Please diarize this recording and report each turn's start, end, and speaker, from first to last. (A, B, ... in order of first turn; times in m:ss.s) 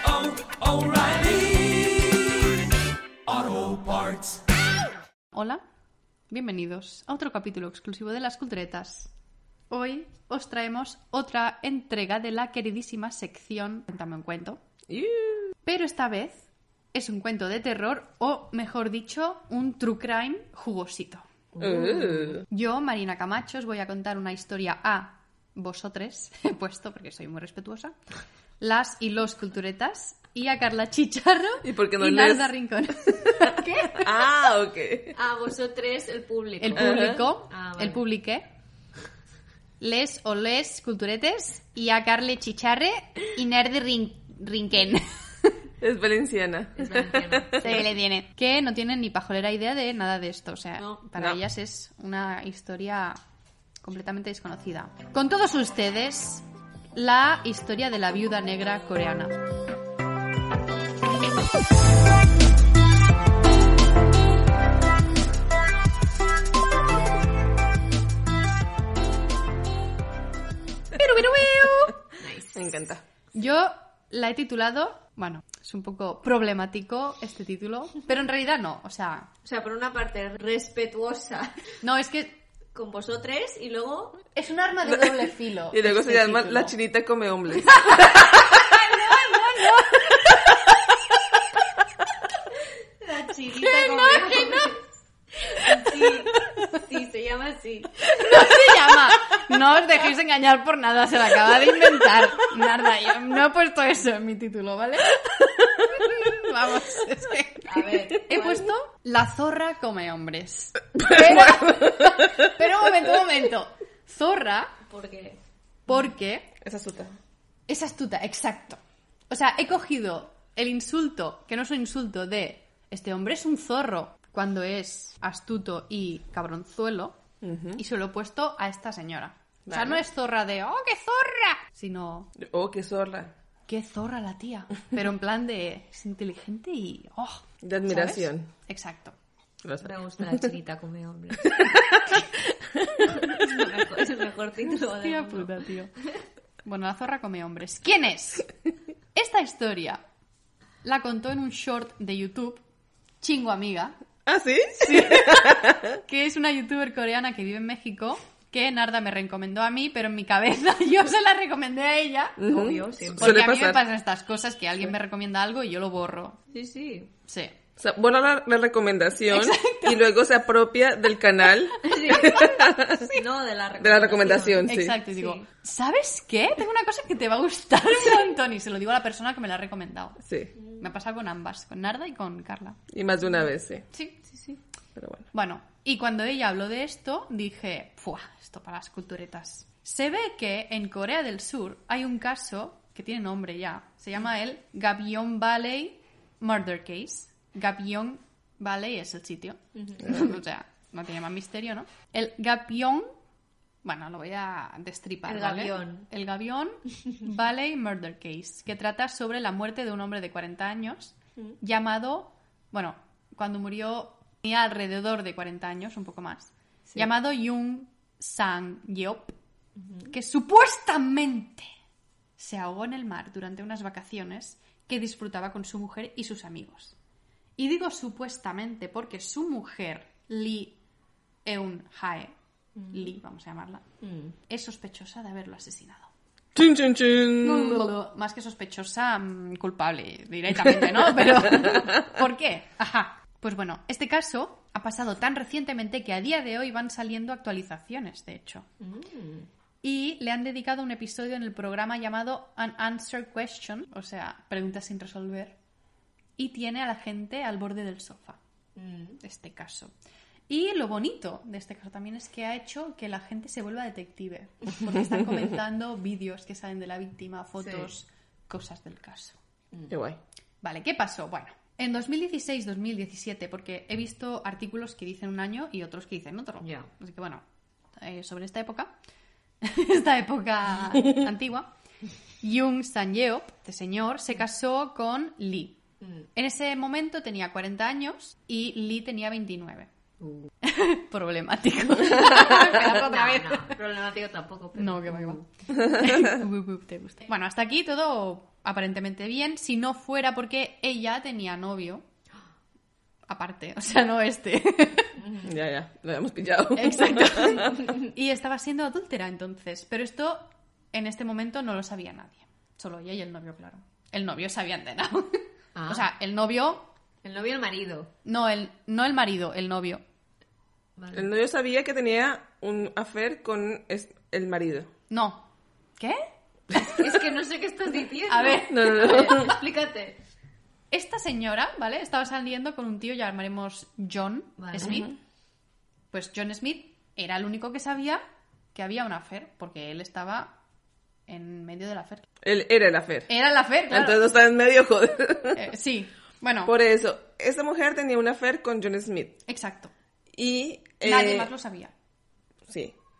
0:00.6-0:02.0 A
0:03.3-0:04.4 A
0:05.3-0:05.6 B
0:06.3-0:09.1 B
0:09.7-0:14.6 B
0:14.9-0:15.5 C
0:15.6-0:21.2 B
0:21.6-0:22.3 D
0:21.6-0:22.4 C
0:22.5-0:28.0 B
0:28.6-0:34.3 B
0:31.6-0:32.5 C
0:33.9-0:35.2 C
0:35.1-0:38.0 D
0:36.6-0:38.5 B
0:36.8-0:37.3 C
0:39.8-0:45.6 B
0:45.8-0:47.7 C
0:46.8-0:47.8 D
0:47.6-0:53.2 B
0:53.8-0:59.4 B
1:10.9-1:12.0 B
1:12.2-1:12.6 D
1:12.5-1:13.0 C
1:13.3-1:19.3 B
1:19.4-1:21.6 D
1:21.8-1:22.4 B
1:22.7-1:24.2 D
1:24.3-1:26.7 B
1:24.8-1:28.2 C
1:27.8-1:30.1 B
1:33.0-1:34.8 D
1:33.7-1:34.6 B
1:35.5-1:38.6 D
1:38.1-1:54.8 B
1:47.6-1:48.7 D
1:54.9-1:55.4 D
1:55.9-1:56.5 B
1:56.6-1:57.1 C
1:57.7-2:07.2 B
2:07.4-2:07.8 C
2:07.8-2:12.3 B
2:09.7-2:10.0 C
2:12.4-2:13.3 C
2:13.7-2:19.2 B
2:17.6-2:18.5 C
2:19.6-2:20.5 C
2:19.8-2:21.6 D
2:23.0-2:25.5 D
2:24.7-2:25.9 B
2:26.6-2:28.5 B
2:29.1-2:30.0 B
2:30.8-2:32.6 B
2:33.2-2:34.0 B
2:34.2-2:35.9 C
2:34.8-2:42.4 B
2:42.4-2:43.8 C
2:42.5-2:43.4 D
2:43.2-2:46.4 B
2:46.5-2:47.1 D
2:47.2-2:47.5 B
2:47.8-2:53.1 C
2:49.3-2:50.0 B
2:51.8-2:55.4 D
2:53.8-2:55.0 C
2:54.6-3:02.8 B
3:00.2-3:00.5 C
3:02.9-3:03.8 C
3:03.9-3:04.2 B
3:05.0-3:05.3 C
3:05.3-3:23.1 B
3:19.8-3:20.1 D
3:23.8-3:39.3 B
3:25.2-3:26.1 D
3:39.8-3:40.1 D
3:40.1-3:41.7 B
3:42.4-3:46.9 B
3:47.6-3:50.8 B
3:51.4-3:52.3 B
3:52.8-3:53.1 D
3:52.9-3:53.8 B
3:54.0-3:54.3 D
3:54.5-3:56.1 B
3:56.5-3:57.8 C
3:57.4-4:08.6 B
4:08.8-4:09.5 D
4:09.8-4:15.6 B
4:16.4-4:18.4 B
4:18.8-4:19.2 D
4:19.2-4:19.9 B
4:20.5-4:29.4 B
4:29.9-4:30.2 C
4:30.6-4:37.4 B
4:36.6-4:36.9 D
4:38.0-4:38.9 B
4:39.6-4:41.7 B
4:42.4-4:45.8 B
4:46.3-4:49.9 B
4:50.2-4:50.5 D
4:50.6-4:53.8 B
4:52.3-4:55.4 D
4:54.7-5:02.0 B
5:03.3-5:05.3 B
5:05.3-5:07.8 C
5:06.7-5:16.9 B
5:15.7-5:16.1 D
5:17.2-5:18.1 D
5:18.2-5:20.0 B
5:21.0-5:21.3 D
5:21.1-5:24.9 C
5:25.1-5:26.2 B
5:26.7-5:27.1 B
5:26.8-5:30.2 D
5:28.3-5:29.5 B
5:28.7-5:29.5 C
5:30.9-5:35.1 B
5:34.6-5:35.0 D
5:34.8-5:35.1 C
5:36.1-5:38.2 B
5:38.7-5:40.6 B
5:41.3-5:42.3 B
5:42.4-5:43.3 C
5:43.3-5:44.3 B
5:43.9-5:45.7 C
5:45.6-5:46.7 B
5:46.6-5:49.4 C
5:49.4-5:49.9 B
5:50.3-5:51.5 C
5:51.0-5:51.9 B
5:52.7-5:52.9 C